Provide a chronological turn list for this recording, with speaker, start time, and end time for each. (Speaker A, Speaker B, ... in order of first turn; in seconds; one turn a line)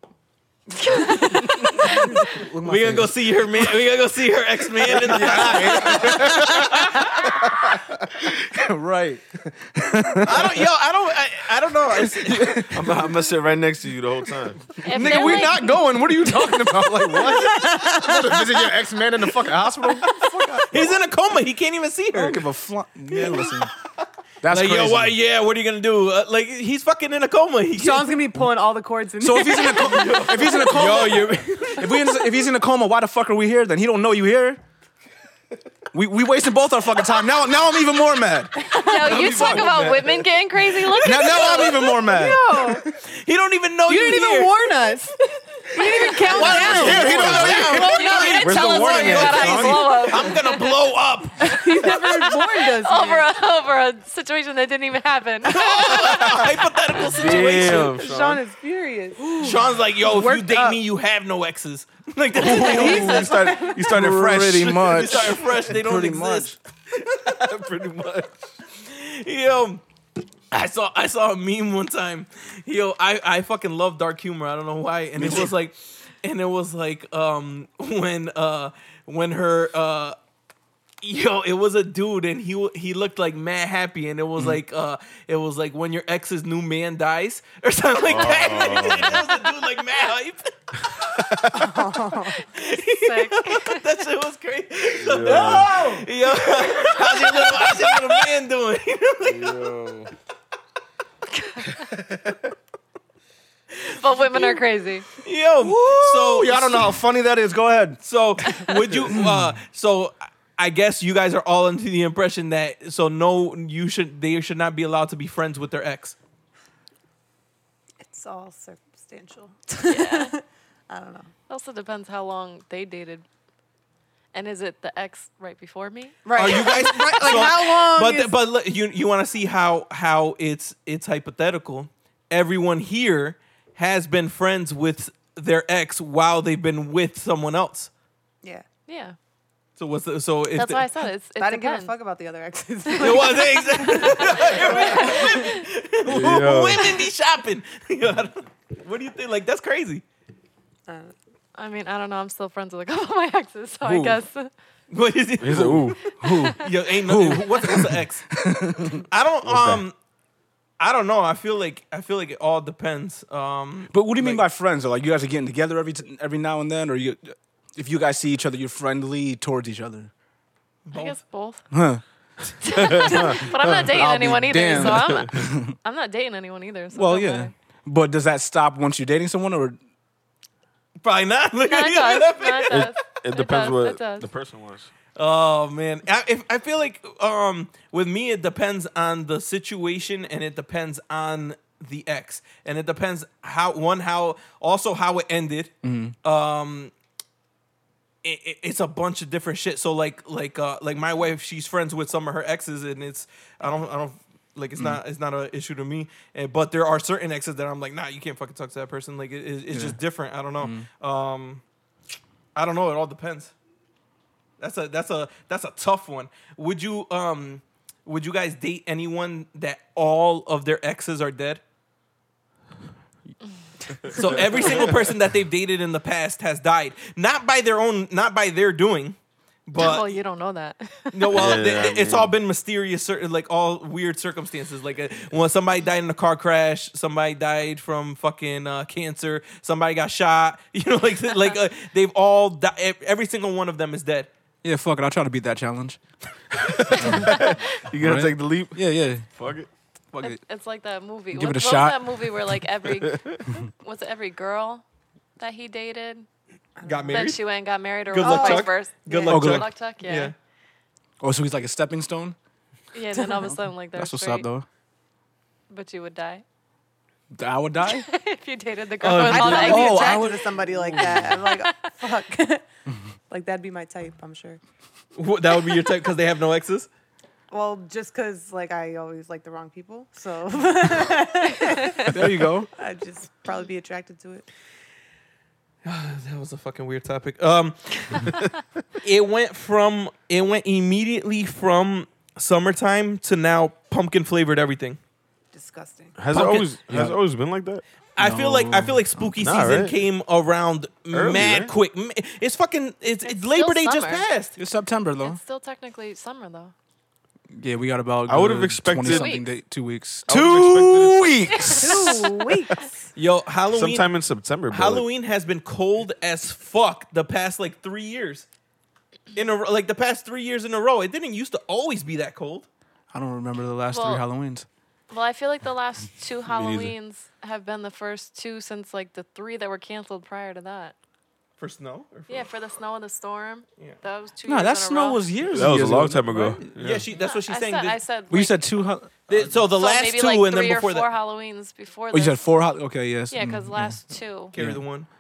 Speaker A: 0.8-2.4
Speaker B: 1.7-3.8
Speaker C: 2.6-7.0
Speaker B: 4.9-7.3
Speaker D: 5.2-8.1
Speaker B: 8.3-10.6
Speaker C: 10.2-12.7
Speaker B: 11.9-13.1
Speaker D: 12.7-15.2
Speaker A: 14.8-15.8
Speaker B: 14.8-21.0
Speaker E: 17.1-18.8
Speaker C: 20.7-22.4
Speaker B: 22.1-23.7
Speaker B: 24.4-25.2
Speaker C: 24.5-28.2
Speaker E: 27.8-31.0
Speaker B: 29.2-34.6
Speaker C: 29.9-32.1
Speaker B: 35.9-40.0
Speaker A: 38.6-41.9
Speaker E: 38.6-39.6
Speaker D: 39.2-40.1
Speaker B: 40.9-43.0
Speaker C: 41.2-41.7
Speaker E: 41.3-42.9
Speaker C: 43.1-44.5
Speaker E: 43.9-45.2
Speaker E: 45.7-48.2
Speaker A: 45.7-46.9
Speaker C: 46.3-51.5
Speaker B: 46.4-49.8
Speaker D: 46.4-50.1
Speaker A: 47.9-50.8
Speaker E: 51.4-53.3
Speaker A: 51.5-56.4
Speaker C: 55.5-58.0
Speaker D: 57.0-58.4
Speaker E: 57.2-60.8
Speaker C: 59.4-63.3
Speaker D: 62.4-65.5
Speaker E: 62.4-63.8
Speaker B: 63.8-66.5
Speaker C: 64.8-66.6
Speaker D: 67.1-68.4
Speaker C: 68.8-69.8
Speaker C: 70.5-80.2
Speaker B: 75.2-75.5
Speaker C: 81.0-91.2
Speaker D: 88.0-89.3
Speaker D: 91.2-91.7
Speaker E: 91.5-92.4
Speaker C: 92.5-99.7
Speaker A: 92.7-93.9
Speaker D: 95.0-95.7
Speaker B: 95.1-96.0
Speaker D: 99.3-100.1
Speaker A: 101.3-101.8
Speaker A: 103.9-105.1
Speaker C: 104.3-104.6
Speaker C: 105.2-107.0
Speaker B: 105.6-108.0
Speaker C: 108.0-116.2
Speaker A: 108.4-108.8
Speaker B: 109.1-109.3
Speaker E: 118.0-121.3
Speaker A: 119.8-120.3
Speaker A: 121.5-123.2
Speaker A: 124.3-126.5
Speaker E: 126.2-128.3
Speaker C: 126.3-137.9
Speaker A: 138.9-139.2
Speaker C: 139.8-140.9
Speaker A: 140.5-141.9
Speaker E: 141.4-145.4
Speaker A: 142.9-145.7
Speaker C: 143.0-150.0
Speaker D: 146.1-146.9
Speaker E: 150.9-151.1
Speaker A: 151.6-154.5
Speaker B: 153.8-154.2
Speaker C: 154.9-158.3
Speaker D: 155.4-156.0
Speaker B: 156.2-159.0
Speaker C: 159.0-159.9
Speaker D: 159.4-159.8
Speaker C: 160.8-164.5
Speaker B: 163.9-170.1
Speaker C: 170.9-171.2
Speaker A: 170.9-171.7
Speaker B: 171.7-172.5
Speaker A: 172.6-177.5
Speaker D: 172.8-173.9
Speaker B: 173.7-175.8
Speaker B: 176.9-179.8
Speaker C: 181.0-182.9
Speaker A: 181.6-184.3
Speaker D: 182.7-184.9
Speaker C: 185.2-196.9
Speaker B: 195.8-196.2
Speaker C: 198.2-211.6
Speaker B: 209.7-210.0
Speaker B: 210.6-210.9
Speaker C: 212.6-213.5
Speaker C: 214.6-221.6
Speaker C: 224.1-230.1
Speaker D: 224.1-224.9
Speaker A: 229.8-231.6
Speaker C: 231.1-244.3
Speaker D: 231.3-232.3
Speaker B: 244.6-246.0
Speaker B: 246.6-247.4
Speaker D: 246.9-249.7
Speaker A: 247.0-247.7
Speaker B: 248.0-249.3
Speaker B: 250.1-250.4
Speaker A: 250.2-254.8
Speaker B: 251.3-252.3
Speaker D: 253.1-253.4
Speaker A: 255.4-256.3
Speaker E: 256.8-257.3
Speaker C: 256.8-257.4
Speaker A: 257.1-260.3
Speaker C: 258.1-260.3
Speaker E: 258.2-259.4
Speaker B: 259.3-259.7
Speaker B: 261.2-262.4
Speaker A: 262.9-264.5
Speaker B: 263.5-264.7
Speaker A: 265.7-266.4
Speaker B: 267.4-268.1
Speaker A: 267.8-270.1
Speaker C: 269.0-269.9
Speaker E: 269.2-272.6
Speaker B: 269.5-271.2
Speaker A: 271.0-271.7
Speaker E: 273.3-274.6
Speaker C: 275.2-276.9
Speaker E: 277.5-282.2
Speaker A: 281.6-282.1
Speaker B: 282.1-282.7
Speaker E: 282.7-284.5
Speaker C: 285.8-288.4
Speaker C: 289.0-295.0
Speaker E: 295.5-296.2
Speaker D: 296.2-297.8
Speaker C: 296.3-296.8
Speaker B: 296.4-297.2
Speaker C: 298.2-304.6
Speaker B: 298.2-299.3
Speaker D: 299.4-300.0
Speaker D: 301.1-301.7
Speaker A: 303.3-304.3
Speaker B: 304.6-305.4
Speaker A: 305.2-306.7
Speaker B: 307.6-311.9
Speaker D: 308.3-309.3
Speaker A: 309.0-309.5
Speaker D: 310.3-311.9
Speaker A: 311.5-312.4
Speaker E: 311.7-313.1
Speaker C: 313.2-314.1
Speaker D: 313.7-315.1
Speaker C: 314.7-318.5
Speaker C: 319.3-322.7
Speaker B: 323.1-324.7
Speaker A: 323.9-324.2
Speaker A: 325.1-330.9
Speaker D: 326.5-326.9
Speaker C: 331.6-332.5
Speaker A: 332.3-335.3
Speaker B: 334.5-336.8
Speaker D: 335.5-337.1
Speaker C: 336.8-338.0
Speaker A: 337.1-338.7
Speaker B: 338.3-339.1
Speaker C: 339.3-341.1
Speaker A: 339.6-342.4
Speaker B: 342.1-344.0
Speaker A: 343.3-344.6
Speaker C: 344.5-345.1
Speaker B: 344.6-344.8